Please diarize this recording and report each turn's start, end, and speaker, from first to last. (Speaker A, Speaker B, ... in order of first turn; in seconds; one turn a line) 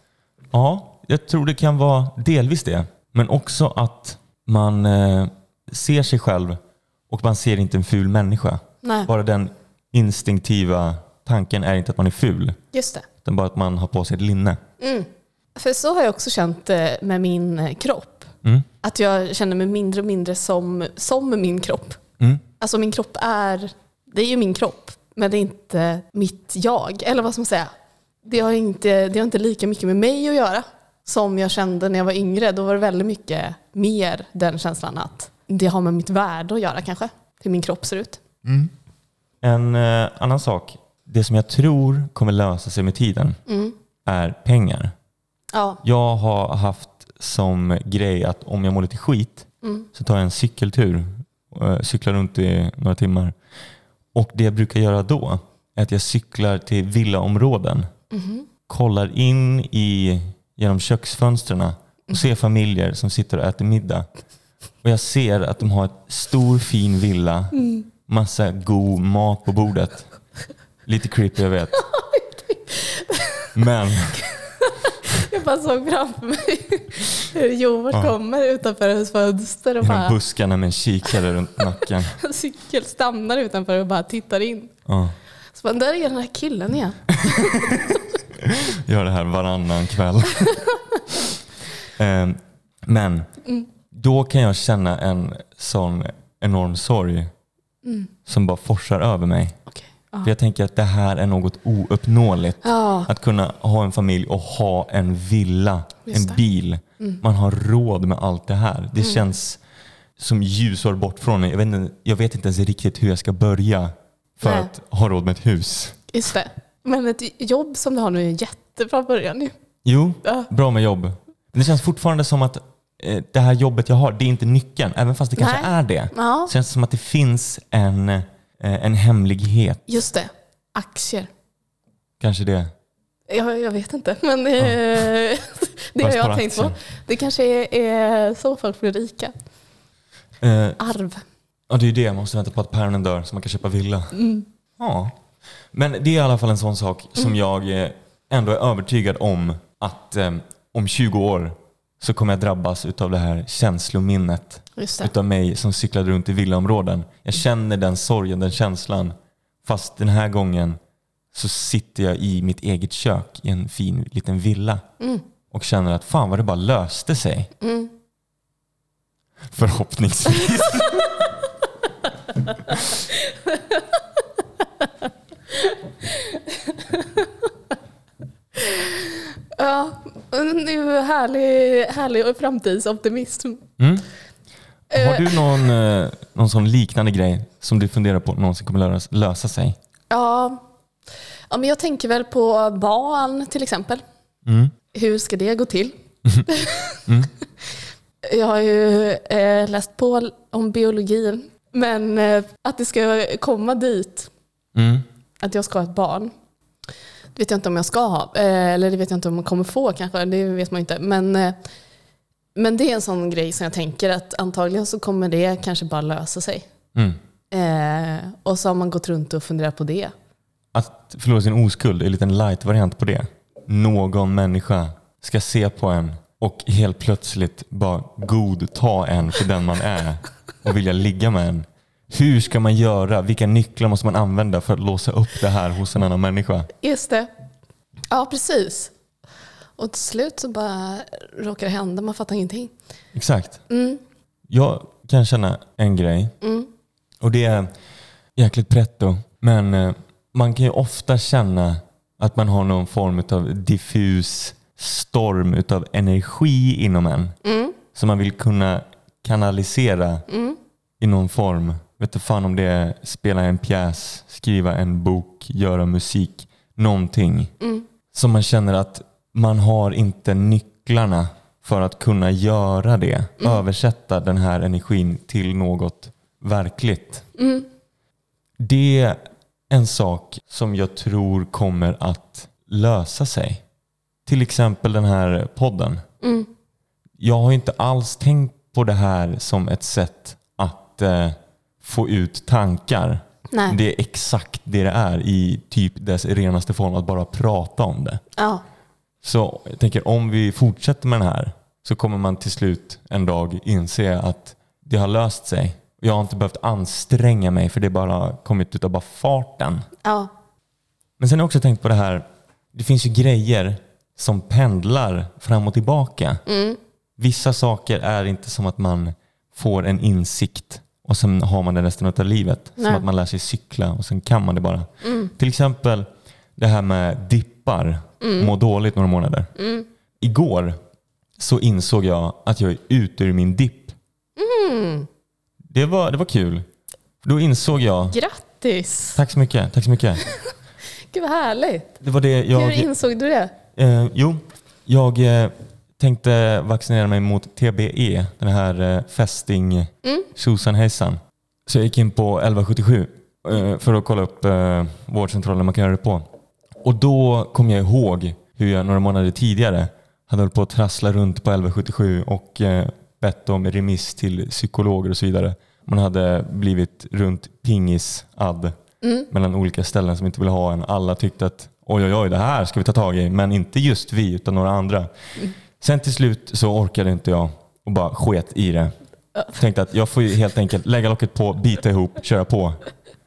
Speaker A: 0.5-6.6
Speaker A: 7.1-12.6
Speaker B: 8.8-9.1
Speaker B: 12.7-13.1
Speaker A: 13.2-14.6
Speaker B: 14.8-18.3
Speaker B: 18.8-22.0
Speaker B: 22.6-27.7
Speaker B: 28.2-38.2
Speaker A: 39.4-43.4
Speaker B: 43.5-43.8
Speaker A: 44.0-44.9
Speaker B: 45.5-45.8
Speaker A: 45.8-53.4
Speaker A: 54.1-57.9
Speaker B: 58.1-58.5
Speaker A: 58.7-64.1
Speaker A: 64.8-70.1
Speaker B: 67.5-67.9
Speaker A: 70.9-71.8
Speaker B: 71.8-80.2
Speaker A: 73.5-74.3
Speaker A: 79.8-82.2
Speaker B: 82.2-84.7
Speaker A: 84.9-85.2
Speaker B: 85.5-88.0
Speaker A: 87.1-91.3
Speaker A: 91.9-93.3
Speaker A: 93.9-97.3
Speaker B: 97.8-98.1
Speaker A: 98.3-99.6
Speaker B: 99.8-100.3
Speaker A: 100.2-109.6
Speaker B: 102.6-103.1
Speaker B: 106.1-106.4
Speaker A: 110.2-116.0
Speaker B: 114.4-114.7
Speaker B: 116.1-119.5
Speaker A: 119.8-129.8
Speaker B: 125.4-126.5
Speaker B: 129.9-131.3
Speaker A: 132.2-132.7
Speaker B: 133.3-139.4
Speaker A: 134.6-135.0
Speaker A: 136.0-136.8
Speaker A: 140.4-140.8
Speaker B: 140.8-141.2
Speaker A: 141.7-144.2
Speaker B: 144.1-144.4
Speaker A: 144.8-145.2
Speaker A: 145.7-160.8
Speaker B: 154.8-155.1
Speaker A: 161.3-164.8
Speaker B: 165.0-165.2
Speaker A: 165.5-167.5
Speaker B: 167.6-167.9
Speaker A: 169.5-171.2
Speaker B: 172.7-177.5
Speaker B: 178.6-183.6
Speaker A: 183.8-184.1
Speaker B: 184.9-185.7
Speaker A: 184.9-189.8
Speaker B: 190.1-190.6
Speaker B: 191.5-194.0
Speaker A: 194.5-194.7
Speaker B: 194.9-197.1
Speaker A: 197.1-197.3
Speaker B: 198.2-204.3
Speaker A: 204.8-205.1
Speaker B: 205.4-206.3
Speaker B: 207.3-211.6
Speaker B: 212.6-216.7
Speaker B: 217.5-220.1
Speaker A: 220.8-236.7
Speaker B: 236.8-237.3
Speaker B: 238.1-238.9
Speaker B: 239.8-242.7
Speaker A: 243.2-243.6
Speaker B: 243.7-244.0
Speaker A: 244.5-246.3
Speaker B: 246.4-246.7
Speaker A: 247.2-247.7
Speaker A: 248.4-257.4
Speaker B: 257.4-257.8
Speaker A: 257.9-260.3
Speaker B: 260.3-260.6
Speaker A: 261.0-267.5
Speaker B: 267.6-267.9
Speaker A: 268.1-277.3
Speaker B: 277.4-277.7
Speaker A: 278.6-283.6
Speaker A: 284.3-286.0
Speaker B: 286.2-286.5
Speaker A: 287.2-298.2
Speaker B: 293.5-293.8
Speaker B: 298.4-298.6
Speaker A: 299.2-309.9
Speaker B: 310.0-310.3
Speaker A: 311.2-316.4
Speaker B: 316.5-316.8
Speaker A: 317.2-329.5
Speaker B: 322.8-323.1
Speaker B: 325.0-325.3
Speaker B: 328.2-328.5
Speaker B: 329.6-329.9
Speaker A: 330.2-330.8
Speaker A: 331.4-334.0
Speaker B: 334.4-335.1
Speaker A: 335.7-336.7
Speaker A: 337.2-338.2
Speaker B: 338.1-339.2
Speaker A: 339.1-340.2
Speaker B: 340.2-340.5
Speaker B: 341.1-342.0
Speaker A: 342.0-342.9
Speaker B: 342.5-343.5
Speaker A: 343.8-356.3
Speaker A: 356.8-368.8
Speaker B: 369.0-369.3
Speaker A: 369.3-379.0
Speaker A: 379.5-382.8